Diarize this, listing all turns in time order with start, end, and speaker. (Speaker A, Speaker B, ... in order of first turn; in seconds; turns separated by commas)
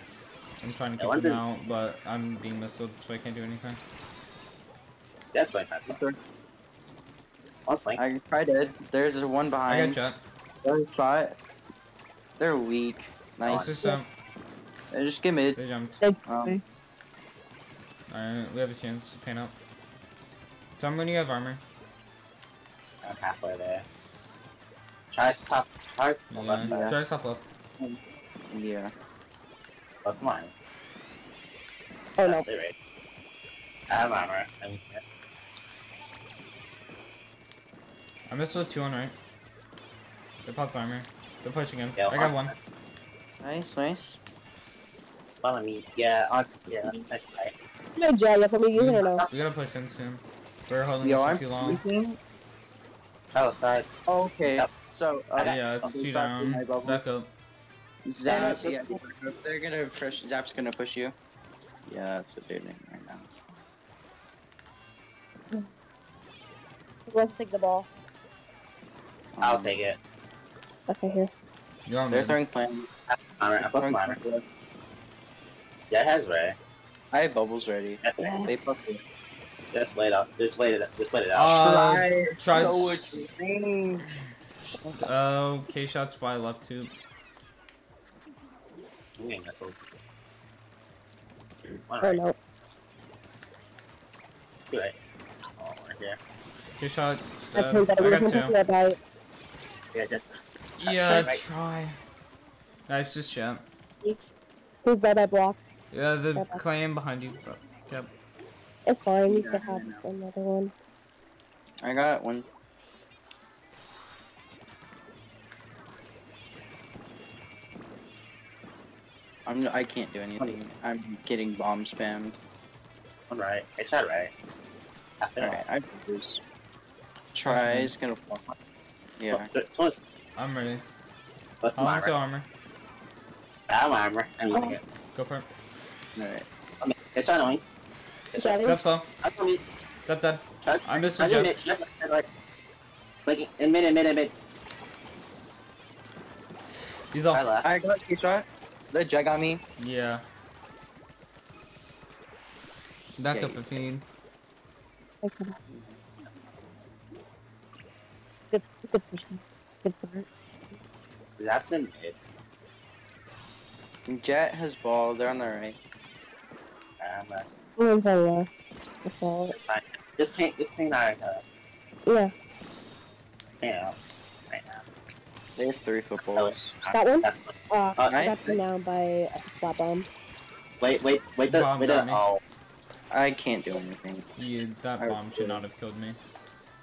Speaker A: 0.6-3.8, Speaker B: 1.0-1.4, Speaker B: 5.3-6.0, Speaker C: 5.9-6.2, Speaker B: 7.7-8.0, Speaker C: 8.0-11.4, Speaker A: 9.7-10.2, Speaker C: 12.4-14.0, Speaker A: 13.4-14.1, Speaker B: 13.5-13.8, Speaker C: 14.9-15.6, Speaker A: 15.6-16.0, Speaker D: 16.0-16.6, Speaker C: 16.3-16.6, Speaker A: 18.1-19.5, Speaker A: 20.8-21.6, Speaker B: 23.0-23.9, Speaker B: 25.1-26.9, Speaker A: 26.3-27.4, Speaker C: 26.6-27.0, Speaker C: 28.5-28.9, Speaker B: 30.0-30.5, Speaker D: 32.2-32.5, Speaker B: 32.2-32.8, Speaker B: 33.9-35.0, Speaker A: 38.3-39.1, Speaker A: 40.5-42.5, Speaker B: 42.0-42.5, Speaker C: 43.4-44.2, Speaker B: 45.4-47.5, Speaker D: 48.0-49.2, Speaker A: 48.7-51.8, Speaker B: 49.0-49.3, Speaker C: 51.0-52.2, Speaker B: 53.3-53.9, Speaker C: 54.1-57.0, Speaker B: 55.4-55.9, Speaker A: 55.4-57.3, Speaker C: 58.1-61.1, Speaker D: 58.3-59.0, Speaker B: 58.3-58.8, Speaker C: 61.9-63.3, Speaker D: 67.1-67.9, Speaker C: 69.3-69.9, Speaker B: 69.4-70.0, Speaker D: 70.9-71.3, Speaker A: 71.9-72.4, Speaker C: 72.1-72.9, Speaker B: 73.1-74.2, Speaker C: 73.6-74.4, Speaker B: 75.9-76.6, Speaker C: 77.1-79.0, Speaker B: 78.0-78.5, Speaker B: 79.7-82.0, Speaker A: 81.3-83.1, Speaker C: 81.6-84.1, Speaker A: 85.0-86.9, Speaker B: 89.2-89.8, Speaker B: 91.9-92.2, Speaker D: 92.0-92.4, Speaker B: 94.7-95.0, Speaker B: 95.6-96.2, Speaker A: 96.8-98.5, Speaker D: 97.5-99.0, Speaker B: 99.9-101.4, Speaker A: 100.8-102.0, Speaker A: 102.9-103.6, Speaker D: 104.8-105.6, Speaker A: 105.9-108.1, Speaker D: 106.3-106.6, Speaker D: 108.9-110.7, Speaker C: 109.3-110.0, Speaker C: 111.8-112.5, Speaker C: 119.5-122.4, Speaker B: 123.3-124.3, Speaker B: 125.2-125.6, Speaker C: 125.4-126.4, Speaker C: 127.3-128.6, Speaker A: 127.5-127.9, Speaker C: 129.2-129.5, Speaker B: 129.3-130.0, Speaker A: 130.4-130.8, Speaker B: 131.6-132.1, Speaker A: 131.8-132.5, Speaker B: 133.7-134.8, Speaker A: 135.2-135.5, Speaker C: 136.2-136.5, Speaker B: 136.8-137.6, Speaker B: 138.3-139.6, Speaker D: 138.4-138.8, Speaker A: 138.6-139.1, Speaker A: 140.1-141.6, Speaker B: 140.6-142.3, Speaker B: 143.2-144.3, Speaker A: 147.1-147.4, Speaker B: 147.3-147.7, Speaker C: 147.6-149.6, Speaker A: 149.8-150.2, Speaker A: 153.2-154.0, Speaker B: 153.3-153.8, Speaker D: 155.2-155.6, Speaker C: 155.7-155.9, Speaker D: 158.5-160.9, Speaker B: 161.4-162.2, Speaker C: 164.1-165.8, Speaker B: 167.0-167.5, Speaker D: 167.8-169.6, Speaker B: 169.5-171.4, Speaker D: 172.1-172.3, Speaker B: 173.6-174.0, Speaker B: 174.5-174.8, Speaker C: 175.6-176.8, Speaker B: 176.3-178.2, Speaker D: 176.9-180.1, Speaker C: 178.1-178.6, Speaker B: 180.8-182.4, Speaker A: 181.5-182.2, Speaker C: 183.1-184.3, Speaker A: 184.4-186.2, Speaker C: 185.0-185.6